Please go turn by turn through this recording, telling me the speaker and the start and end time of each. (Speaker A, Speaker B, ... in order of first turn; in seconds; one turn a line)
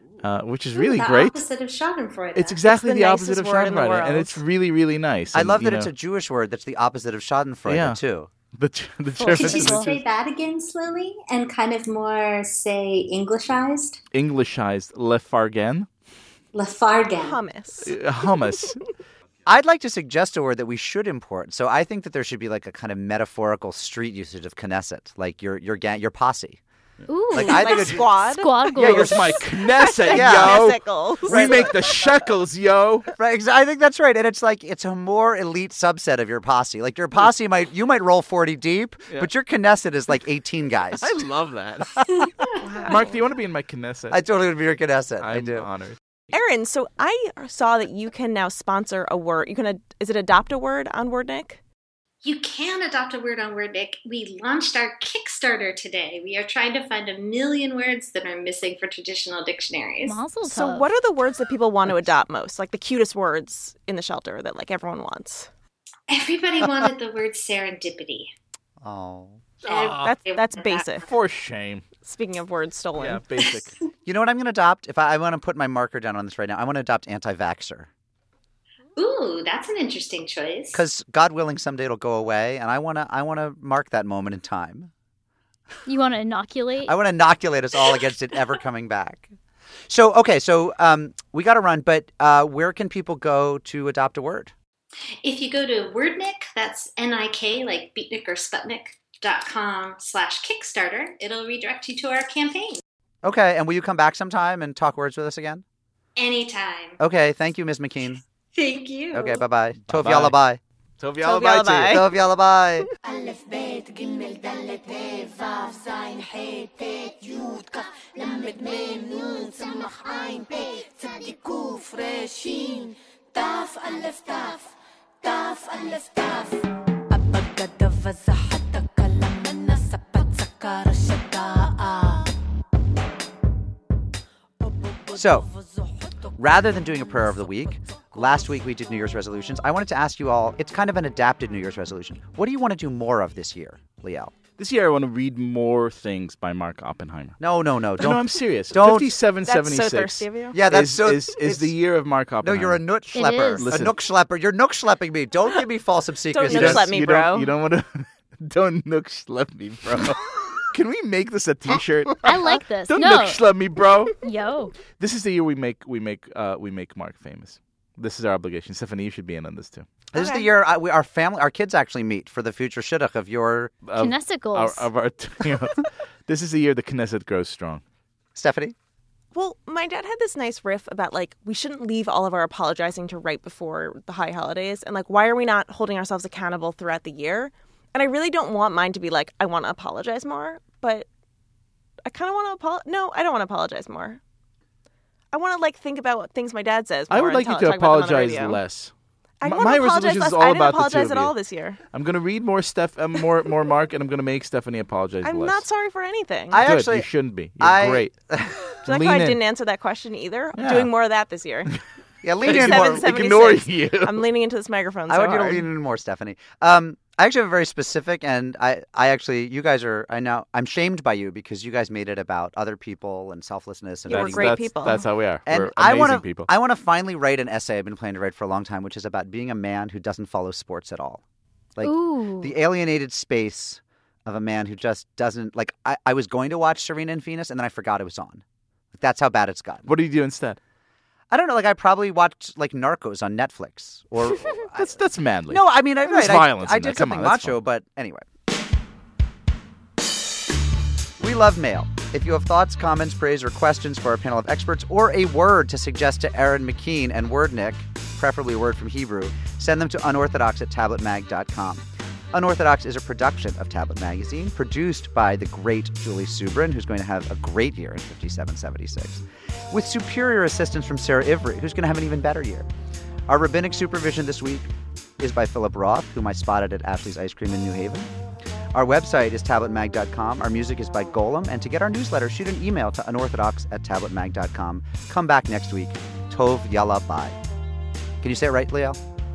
Speaker A: 0.2-1.4
Speaker B: 0.7-2.6
Speaker A: 2.4-5.9
Speaker C: 2.7-4.4
Speaker D: 5.3-8.3
Speaker A: 7.7-8.0
Speaker A: 8.5-10.0
Speaker E: 9.1-9.9
Speaker B: 9.3-14.0
Speaker A: 14.1-15.9
Speaker B: 16.5-17.4
Speaker C: 17.2-17.9
Speaker A: 17.8-18.9
Speaker D: 19.5-26.6
Speaker E: 27.1-29.4
Speaker D: 27.3-28.1
Speaker C: 27.4-31.9
Speaker D: 28.7-29.3
Speaker A: 28.8-33.1
Speaker D: 30.1-30.7
Speaker D: 31.3-31.9
Speaker D: 33.2-41.1
Speaker A: 41.0-44.2
Speaker B: 42.1-42.5
Speaker C: 42.8-43.1
Speaker D: 44.1-45.7
Speaker A: 45.2-46.0
Speaker C: 46.3-51.6
Speaker B: 52.2-60.2
Speaker E: 60.0-60.9
Speaker C: 60.4-65.5
Speaker B: 66.1-68.3
Speaker D: 68.8-69.4
Speaker A: 69.6-70.2
Speaker B: 69.7-71.0
Speaker C: 70.0-71.1
Speaker A: 71.0-71.9
Speaker C: 72.0-73.5
Speaker A: 73.0-73.7
Speaker D: 74.1-77.9
Speaker B: 79.0-80.8
Speaker D: 80.7-84.9
Speaker E: 85.9-87.0
Speaker D: 86.8-89.3
Speaker D: 89.9-94.5
Speaker B: 95.2-102.8
Speaker D: 103.2-105.6
Speaker B: 106.2-107.0
Speaker D: 107.0-108.2
Speaker B: 108.5-109.4
Speaker D: 109.1-110.6
Speaker A: 109.9-110.4
Speaker A: 111.0-112.0
Speaker C: 111.2-112.2
Speaker D: 111.9-112.9
Speaker F: 113.0-132.3
Speaker F: 134.6-138.4
Speaker D: 135.1-135.5
Speaker D: 136.4-144.3
Speaker A: 144.6-147.4
Speaker D: 147.4-149.1
Speaker A: 148.0-152.8
Speaker C: 149.4-150.6
Speaker D: 150.5-151.8
Speaker D: 152.4-157.1
Speaker E: 153.1-153.7
Speaker A: 153.6-154.0
Speaker C: 156.3-157.5
Speaker A: 156.5-164.2
Speaker E: 162.2-163.4
Speaker E: 164.2-164.8
Speaker A: 164.9-169.9
Speaker D: 170.1-173.7
Speaker C: 170.2-170.5
Speaker A: 173.8-177.8
Speaker E: 173.9-174.9
Speaker D: 178.3-178.8
Speaker C: 179.3-191.1
Speaker C: 192.1-194.2
Speaker C: 195.3-198.6
Speaker A: 197.1-201.3
Speaker C: 199.4-201.8
Speaker A: 201.9-205.7
Speaker C: 205.2-206.6
Speaker D: 206.5-208.6
Speaker A: 206.6-208.1
Speaker A: 208.7-209.4
Speaker C: 208.9-211.7
Speaker A: 210.5-210.9
Speaker D: 212.2-213.1
Speaker C: 212.4-215.7
Speaker A: 212.4-214.2
Speaker D: 215.1-224.7
Speaker C: 224.1-225.0
Speaker A: 224.1-226.5
Speaker D: 225.5-231.2
Speaker D: 231.8-238.4
Speaker E: 231.8-232.6
Speaker D: 238.9-239.9
Speaker A: 239.9-240.6
Speaker D: 241.3-244.9
Speaker A: 244.5-247.6
Speaker D: 245.5-248.3
Speaker D: 251.2-272.7
Speaker D: 273.3-274.7
Speaker D: 275.2-278.1
Speaker D: 278.7-287.4
Speaker D: 288.2-289.0